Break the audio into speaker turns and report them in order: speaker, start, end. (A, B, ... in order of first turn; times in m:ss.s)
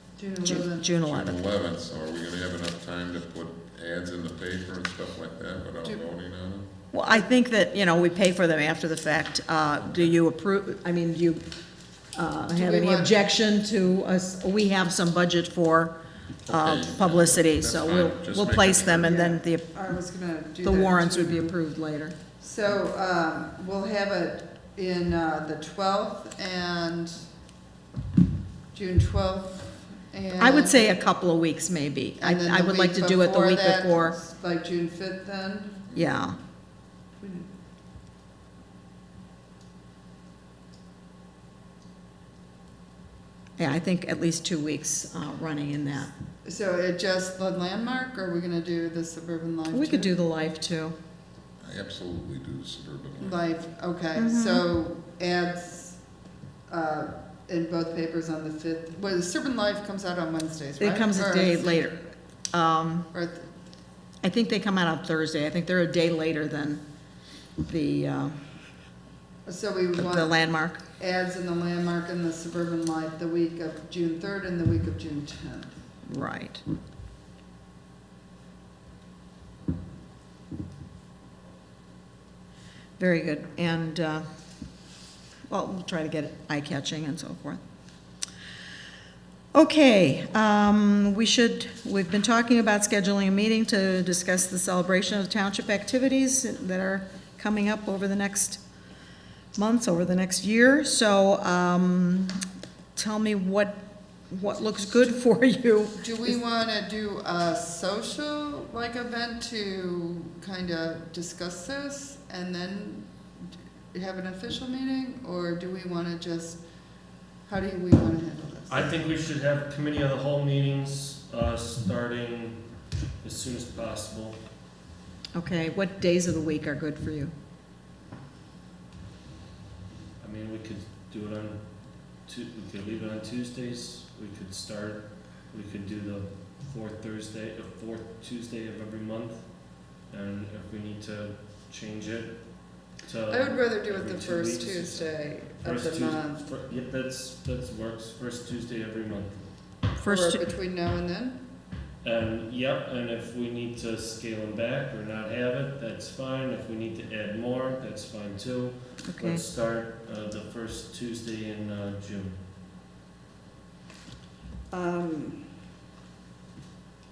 0:00.2-0:01.0 A
0:00.4-0:01.4 B
0:01.0-0:06.7 C
0:06.9-0:11.4 B
0:12.1-0:19.8 B
0:12.5-0:13.2 A
0:16.5-0:19.2 C
0:19.0-0:21.5 A
0:20.6-0:22.2 B
0:22.4-0:27.2 A
0:28.7-0:30.9 A
0:30.4-0:34.2 B
0:32.2-0:35.8 A
0:35.9-0:36.4 B
0:37.2-0:37.5 A
0:43.6-0:46.1 B
0:46.4-0:50.1 A
0:49.7-0:51.0 B
0:51.6-0:53.4 C
0:53.2-0:56.0 A
0:54.1-0:54.6 B
0:56.7-1:01.9 A
1:00.8-1:03.1 B
1:03.1-1:03.5 A
1:04.2-1:06.8 B
1:07.6-1:08.4 B
1:09.5-1:10.4 A
1:10.0-1:10.8 B
1:11.0-1:15.8 A
1:16.1-1:16.6 B
1:23.0-1:24.2 B
1:25.5-1:27.6 B
1:29.6-1:38.6 B
1:39.5-1:42.4 B
1:43.0-1:46.4 B
1:46.0-1:58.9 A
1:58.7-2:04.4 D
2:05.3-2:07.3 B
2:10.2-2:29.8 D
2:23.3-2:26.5 A
2:30.0-2:30.4 B
2:30.0-2:31.4 A
2:32.0-2:42.4 D
2:39.0-2:39.4 B
2:44.7-2:45.4 A